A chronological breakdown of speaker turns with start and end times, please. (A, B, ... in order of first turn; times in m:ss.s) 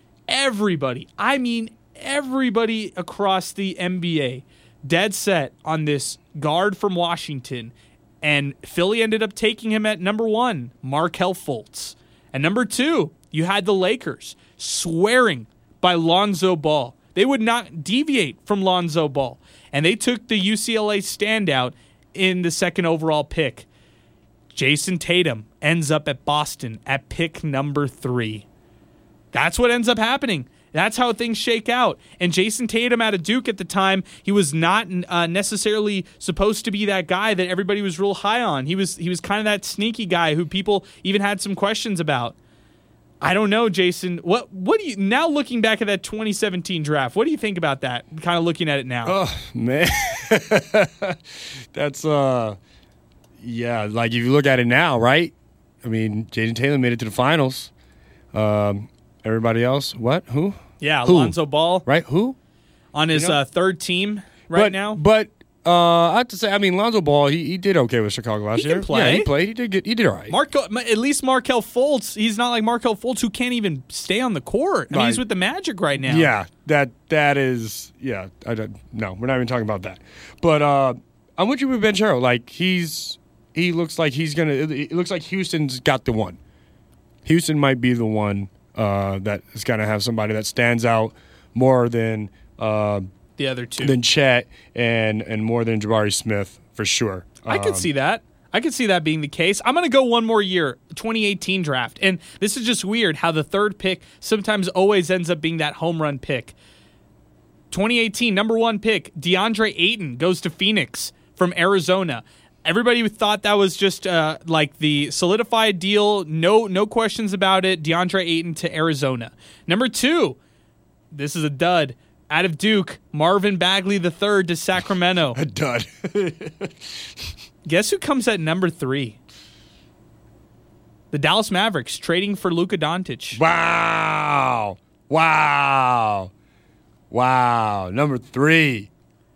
0:00.3-0:23.6 A
0:24.5-0:28.4 A
0:29.3-0:42.3 A
0:43.2-0:49.1 A
0:49.0-0:51.2 B
0:51.7-0:52.6 B
0:53.4-0:57.7 B
0:58.3-1:02.4 B
1:00.8-1:01.8 A
1:02.9-1:05.0 A
1:03.1-1:03.4 B
1:04.5-1:10.3 B
1:08.6-1:09.3 A
1:10.3-1:16.3 A
1:14.9-1:15.2 B
1:16.0-1:26.4 B
1:27.2-1:33.1 B
1:33.4-1:34.0 A
1:33.8-1:37.9 B
1:37.5-1:46.5 A
1:47.7-2:00.4 A
2:01.1-2:05.4 A
2:05.3-2:06.7 B
2:07.6-2:09.2 A
2:11.1-2:13.4 A
2:13.3-2:16.3 B
2:17.1-2:18.9 B